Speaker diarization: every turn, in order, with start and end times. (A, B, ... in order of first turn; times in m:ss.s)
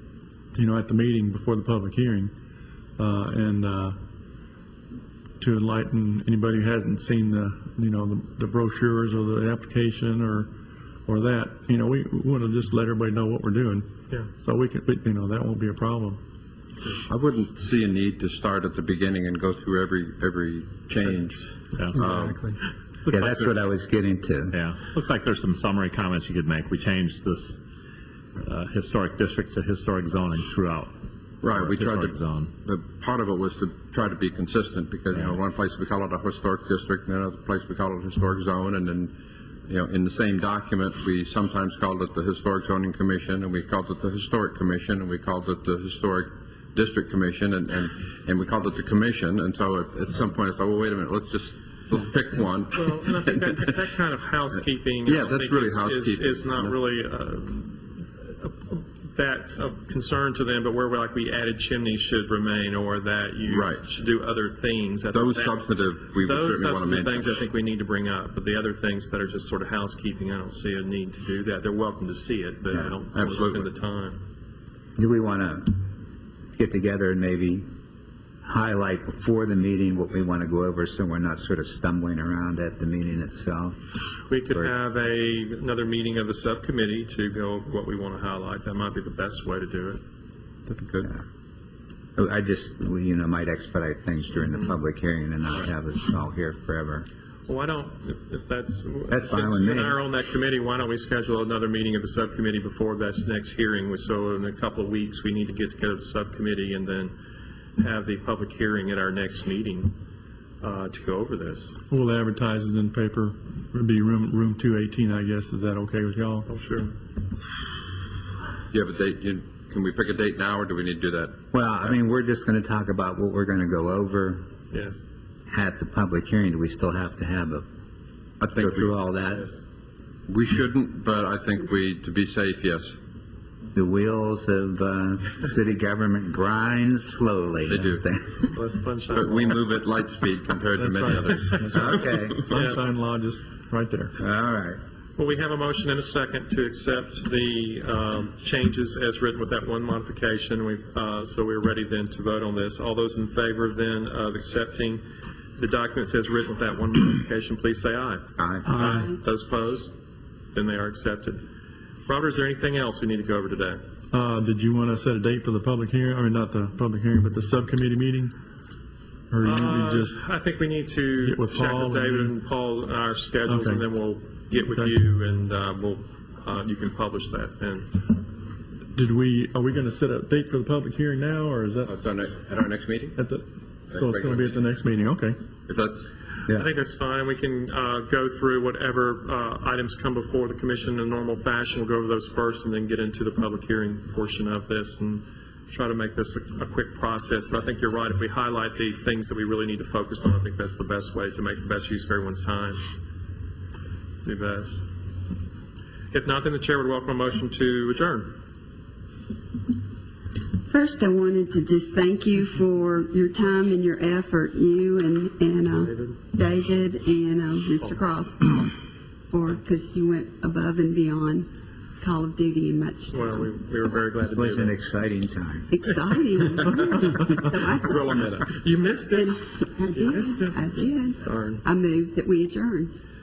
0:00.5-0:02.3 A
0:03.0-0:04.0 A
0:05.4-0:10.5 A
0:11.1-0:16.2 A
0:17.1-0:22.5 B
0:23.1-0:24.6 C
0:24.5-0:27.6 D
0:28.4-0:31.0 D
0:31.4-0:39.1 B
0:31.5-0:32.5 D
0:39.7-0:53.5 B
0:52.7-1:14.2 E
0:55.0-0:56.7 B
1:03.5-1:03.8 B
1:05.1-1:07.4 B
1:12.7-1:13.0 C
1:13.1-1:13.7 B
1:15.0-1:15.8 C
1:16.5-1:17.7 C
1:18.4-1:23.8 C
1:24.3-1:30.0 E
1:30.6-1:31.1 B
1:32.2-1:37.1 C
1:37.5-1:47.1 E
1:39.1-1:40.0 C
1:47.8-1:49.9 E
1:50.6-1:51.8 E
1:51.9-1:56.5 A
1:56.5-1:56.9 E
1:58.7-2:01.4 B
2:01.5-2:04.5 C
2:04.7-2:05.0 E
2:05.5-2:07.6 C
2:08.4-2:09.0 B
2:08.5-2:09.5 C
2:10.3-2:13.0 B
2:13.7-2:18.5 C
2:17.7-2:18.0 B
2:18.5-2:19.8 E
2:19.1-2:22.3 B
2:20.8-2:24.2 A
2:21.7-2:22.4 C
2:22.5-2:22.8 E
2:24.2-2:24.8 C
2:25.2-2:35.0 E
2:35.6-2:39.9 E
2:38.4-2:38.8 C
2:38.7-2:39.0 A
2:40.5-2:41.4 E
2:42.0-2:43.8 E
2:44.1-2:48.3 A
2:49.3-2:50.2 A
2:49.4-2:58.0 E
2:51.2-2:52.3 A
2:53.5-2:53.8 A
2:58.9-3:01.9 A
3:01.9-3:03.2 B
3:03.2-3:05.4 A
3:03.9-3:04.6 B
3:05.7-3:06.1 B
3:06.5-3:22.9 E
3:24.2-3:24.8 E
3:26.1-3:28.3 E
3:30.7-3:38.7 F
3:35.7-3:36.2 E
3:39.3-3:41.5 F
3:42.0-3:43.5 F
3:43.1-3:44.8 E
3:44.3-3:45.7 C
3:45.7-3:48.3 F
3:47.7-3:50.6 E
3:49.0-3:52.9 F
3:51.2-3:51.6 E